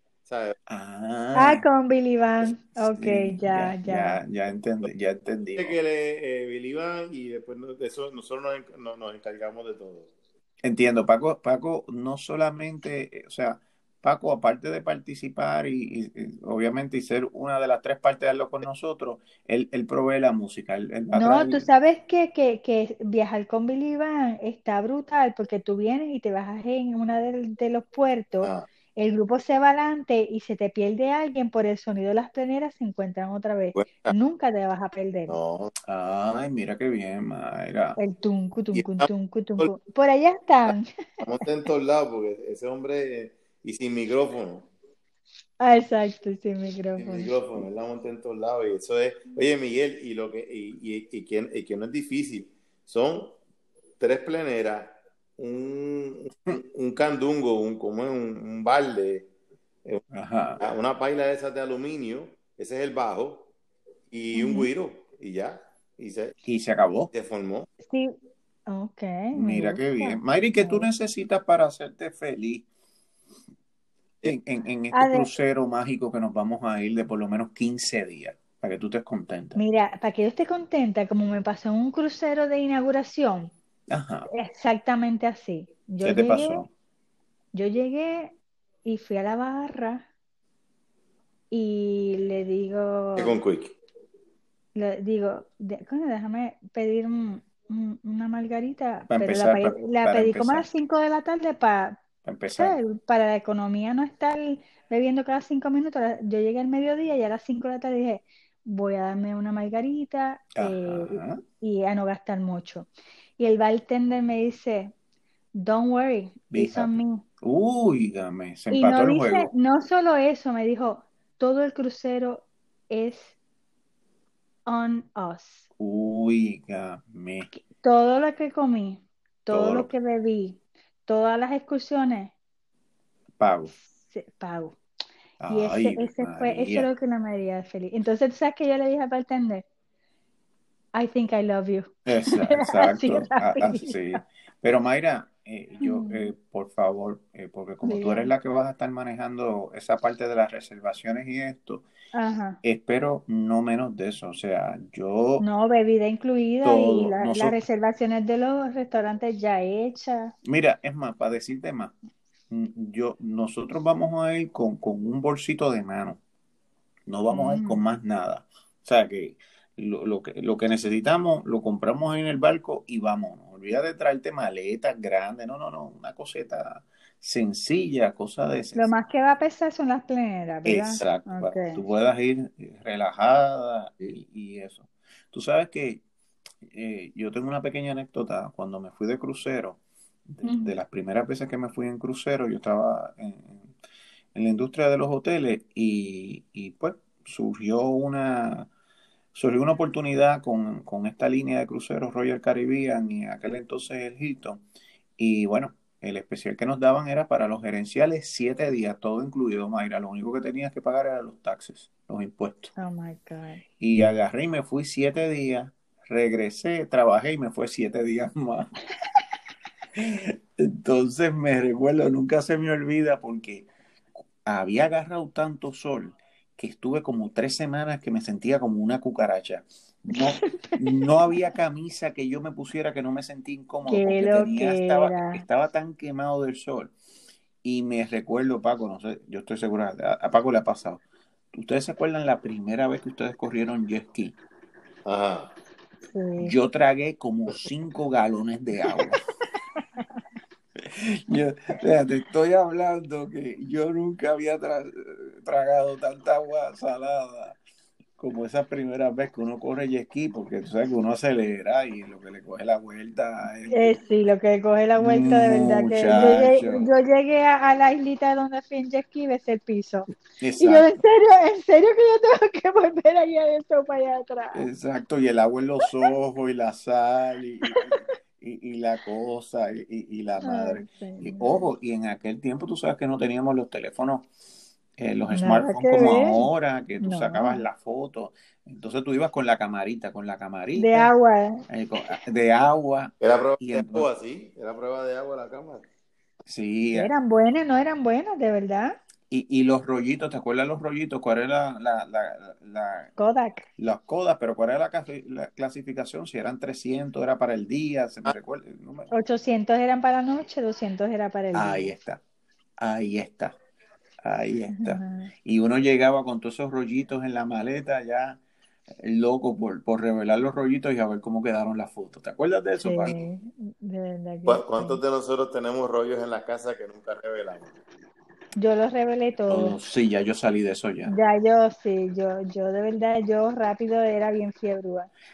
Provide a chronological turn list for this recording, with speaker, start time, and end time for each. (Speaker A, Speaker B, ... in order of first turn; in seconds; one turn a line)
Speaker A: 0.3-0.6
Speaker B: 0.7-1.6
Speaker C: 1.4-4.2
Speaker B: 2.8-5.8
Speaker A: 5.6-10.1
Speaker B: 10.6-21.7
Speaker C: 21.1-35.4
Speaker A: 28.4-28.7
Speaker A: 33.8-34.1
Speaker A: 35.3-35.7
Speaker B: 35.9-38.0
Speaker C: 38.0-41.2
Speaker A: 38.7-39.7
Speaker A: 41.2-44.7
Speaker C: 45.6-47.3
Speaker A: 47.0-53.4
Speaker A: 54.0-59.3
Speaker B: 60.1-60.6
Speaker A: 60.6-63.5
Speaker A: 64.1-66.3
Speaker C: 64.3-64.7
Speaker B: 66.5-67.1
Speaker A: 67.1-67.7
Speaker C: 67.8-70.9
Speaker B: 69.3-72.7
Speaker B: 74.2-79.6
Speaker C: 74.9-75.3
Speaker C: 79.5-83.5
Speaker B: 83.9-84.3
Speaker C: 84.3-86.7
Speaker B: 86.0-86.7
Speaker C: 87.5-90.0
Speaker C: 91.5-93.4
Speaker A: 93.2-93.8
Speaker C: 94.8-102.0
Speaker B: 99.1-100.7
Speaker B: 102.2-102.8
Speaker C: 102.6-115.0
Speaker B: 110.5-111.4
Speaker C: 115.5-117.2
Speaker B: 116.5-119.5
Speaker C: 118.7-123.4
Speaker C: 124.7-125.7
Speaker B: 125.8-127.5
Speaker C: 127.5-132.3
Speaker B: 129.5-129.9
Speaker B: 133.4-133.7
Speaker C: 133.7-134.8
Speaker B: 135.4-136.9
Speaker C: 135.5-139.7
Speaker C: 140.9-144.2
Speaker B: 142.1-151.9
Speaker C: 145.8-146.3
Speaker C: 147.8-148.3
Speaker C: 152.1-152.6
Speaker B: 152.6-155.5
Speaker C: 155.4-160.3
Speaker B: 156.6-157.6
Speaker B: 160.4-161.9
Speaker B: 162.5-166.2
Speaker B: 167.1-178.9
Speaker C: 167.3-167.8
Speaker C: 178.7-181.8
Speaker B: 180.7-186.0
Speaker B: 186.7-193.7
Speaker C: 190.4-190.7
Speaker B: 194.3-198.7
Speaker B: 199.3-204.6
Speaker B: 205.2-212.7
Speaker C: 212.8-213.6
Speaker B: 213.8-218.7
Speaker B: 219.9-223.7
Speaker B: 224.4-236.9
Speaker C: 230.2-231.1
Speaker C: 233.8-235.4
Speaker B: 237.6-244.4
Speaker A: 245.1-245.6
Speaker C: 246.1-246.5
Speaker B: 246.4-249.2
Speaker B: 250.8-257.6
Speaker B: 258.2-264.0
Speaker C: 263.7-274.6
Speaker B: 265.0-266.9
Speaker B: 270.4-271.0
Speaker B: 274.5-284.3
Speaker C: 280.4-281.6
Speaker B: 285.0-291.1
Speaker C: 285.3-286.4
Speaker C: 287.0-287.6
Speaker C: 290.8-292.2
Speaker B: 291.7-294.1
Speaker A: 293.2-295.9
Speaker B: 296.5-297.1
Speaker C: 296.9-299.0
Speaker B: 299.3-303.1
Speaker C: 303.2-303.6
Speaker B: 303.8-309.1
Speaker C: 309.1-311.9
Speaker B: 311.5-312.2
Speaker B: 312.8-313.6
Speaker B: 314.2-318.4
Speaker C: 314.7-315.3
Speaker B: 318.9-323.1
Speaker C: 322.8-325.0
Speaker A: 324.5-327.8
Speaker C: 328.6-329.8
Speaker B: 329.5-331.2
Speaker C: 331.1-335.1